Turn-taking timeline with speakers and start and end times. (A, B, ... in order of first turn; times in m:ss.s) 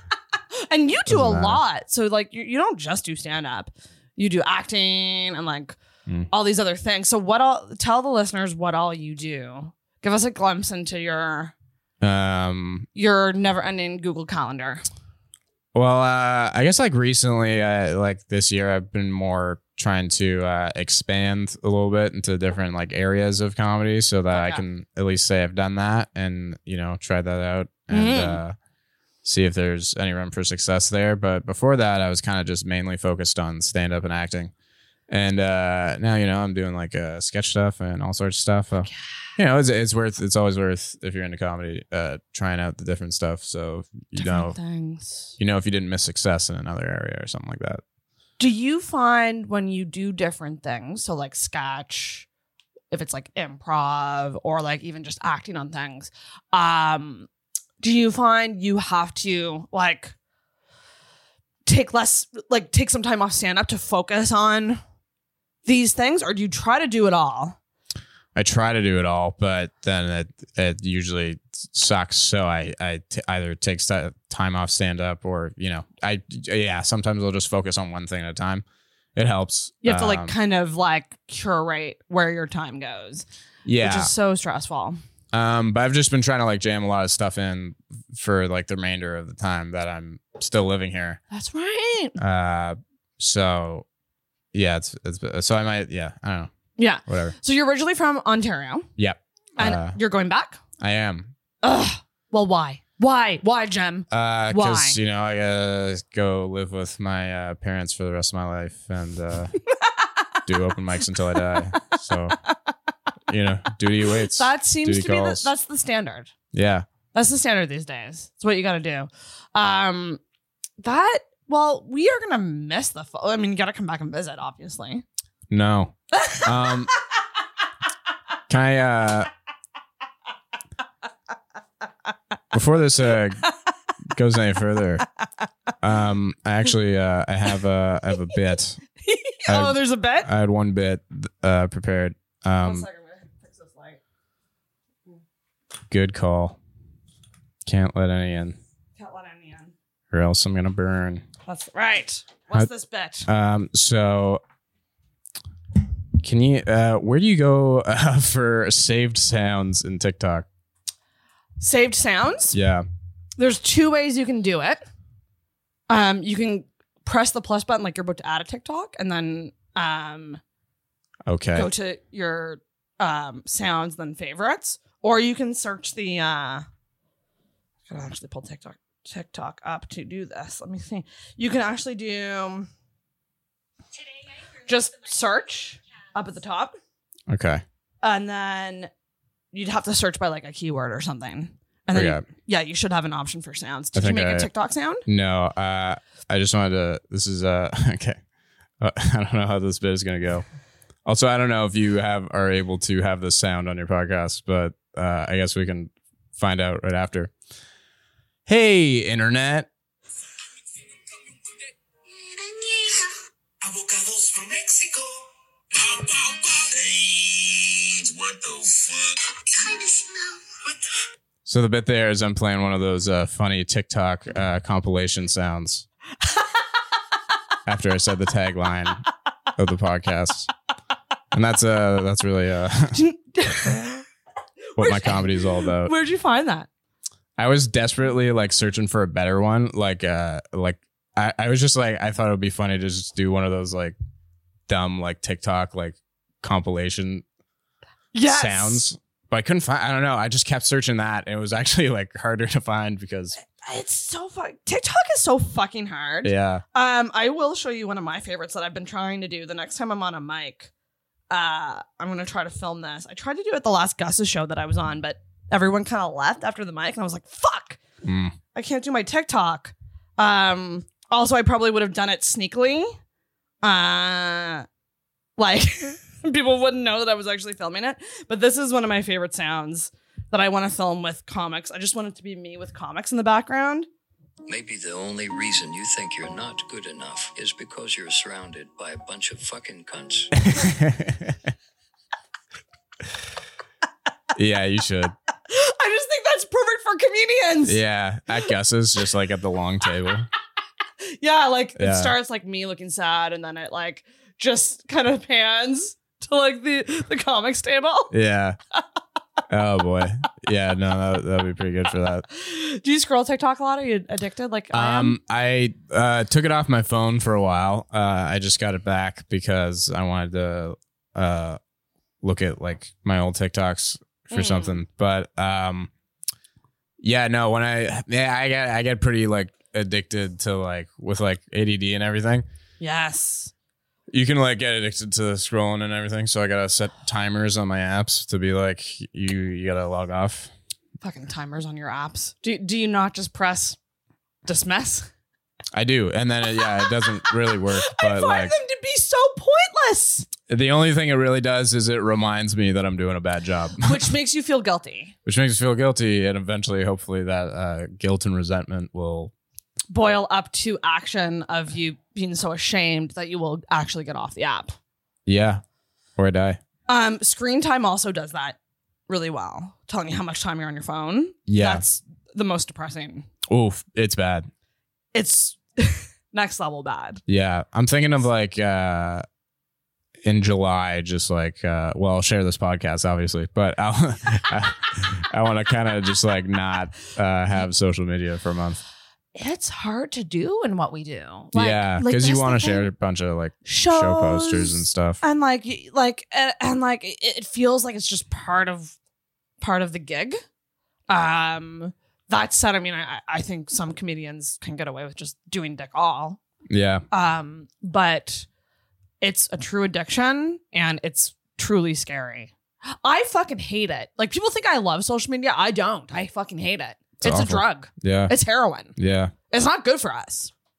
0:00.7-0:05.8 A
0:01.1-0:01.6 B
0:06.3-0:11.5 A
0:12.0-0:12.9 B
0:13.0-0:14.8 A
0:15.7-0:28.6 B
0:24.3-0:24.6 A
0:27.9-0:28.4 A
0:29.2-0:34.5 B
0:35.1-0:44.6 B
0:44.2-0:45.3 A
0:45.4-0:47.8 B
0:48.4-0:52.3 A
0:52.9-0:57.3 A
0:57.8-1:00.2 A
1:01.7-1:04.8 A
1:05.6-1:07.6 A
1:08.4-1:20.3 B
1:19.8-1:23.2 A
1:23.6-1:24.1 B
1:23.8-1:25.0 A
1:25.3-1:31.2 B
1:31.3-1:32.2 A
1:32.2-1:33.8 B
1:34.5-1:36.5 B
1:36.8-1:38.9 A
1:37.1-1:37.4 B
1:39.0-1:40.0 B
1:39.6-1:40.6 A
1:40.8-1:41.3 B
1:41.6-1:45.0 A
1:44.1-1:49.5 B
1:50.5-1:52.4 B
1:53.3-1:55.5 B
1:54.4-1:56.3 A
1:56.5-1:56.9 B
1:57.1-2:00.2 A
2:00.8-2:05.0 A
2:05.5-2:06.9 B
2:06.1-2:06.8 A
2:08.5-2:09.3 B
2:12.5-2:13.4 B
2:14.1-2:15.0 B
2:15.8-2:18.8 B
2:19.0-2:20.3 A
2:19.5-2:22.9 B
2:22.6-2:24.0 A
2:25.9-2:26.6 B
2:27.7-2:28.6 B
2:29.0-2:29.7 A
2:30.1-2:31.2 B
2:31.5-2:33.3 A
2:33.3-2:34.4 B
2:36.2-2:40.5 B
2:41.6-2:42.6 A
2:42.5-2:42.9 B
2:43.4-2:44.8 A
2:45.9-2:50.4 A
2:51.3-2:51.7 B
2:51.6-2:56.6 A
2:57.9-3:02.7 A
3:04.6-3:06.7 A
3:07.3-3:07.6 B
3:08.0-3:08.9 A
3:09.5-3:15.0 A
3:11.9-3:12.2 B
3:14.0-3:14.5 B
3:15.1-3:18.2 B
3:18.8-3:20.4 B
3:21.0-3:27.3 B
3:28.5-3:29.7 B
3:32.4-3:33.1 C
3:33.6-3:35.1 C
3:35.8-3:40.3 C
3:41.5-3:45.9 B
3:47.7-3:49.0 B
3:49.6-3:50.5 B
3:51.3-3:53.0 B
3:52.9-3:54.0 A
3:54.8-3:55.9 B
3:54.8-3:56.7 A
3:57.4-4:04.0 B
4:04.7-4:07.2 B
4:08.1-4:08.9 A
4:08.2-4:13.4 B
4:13.4-4:20.7 A
4:16.2-4:16.6 B
4:21.3-4:27.8 A
4:28.0-4:28.3 B
4:28.5-4:32.9 A
4:33.6-4:34.7 A
4:35.4-4:43.9 A
4:44.5-4:50.3 D
4:50.4-4:51.4 B
4:54.3-4:55.2 B
4:55.5-4:57.8 A
4:57.7-5:00.3 B
5:01.2-5:08.1 A
5:01.8-5:02.2 B
5:08.1-5:08.6 B
5:09.5-5:12.2 B
5:12.3-5:15.2 A
5:14.7-5:21.6 B
5:22.2-5:25.9 B
5:24.3-5:24.8 A
5:27.0-5:32.5 B
5:32.8-5:33.5 A
5:34.1-5:40.5 B
5:41.0-5:43.8 A
5:44.4-5:45.1 A
5:45.7-5:48.6 B
5:46.8-5:50.3 A
5:50.5-5:54.0 B
5:53.8-5:55.1 A
5:55.2-5:59.3 B
5:59.9-6:04.7 A
6:05.3-6:05.6 B
6:06.2-6:06.6 B
6:06.9-6:08.6 A
6:09.1-6:13.3 A
6:11.5-6:11.8 B
6:13.5-6:14.5 B
6:15.1-6:17.2 A
6:17.3-6:19.2 B
6:20.2-6:28.8 B
6:29.4-6:32.9 A
6:31.5-6:35.2 B
6:33.6-6:39.0 A
6:39.6-6:40.4 A
6:41.1-6:46.4 A
6:46.7-6:47.0 B
6:47.1-6:48.5 A
6:49.2-6:52.5 A
6:53.0-6:59.0 A
6:57.2-6:58.3 B
6:59.0-6:59.3 B
6:59.5-7:00.5 A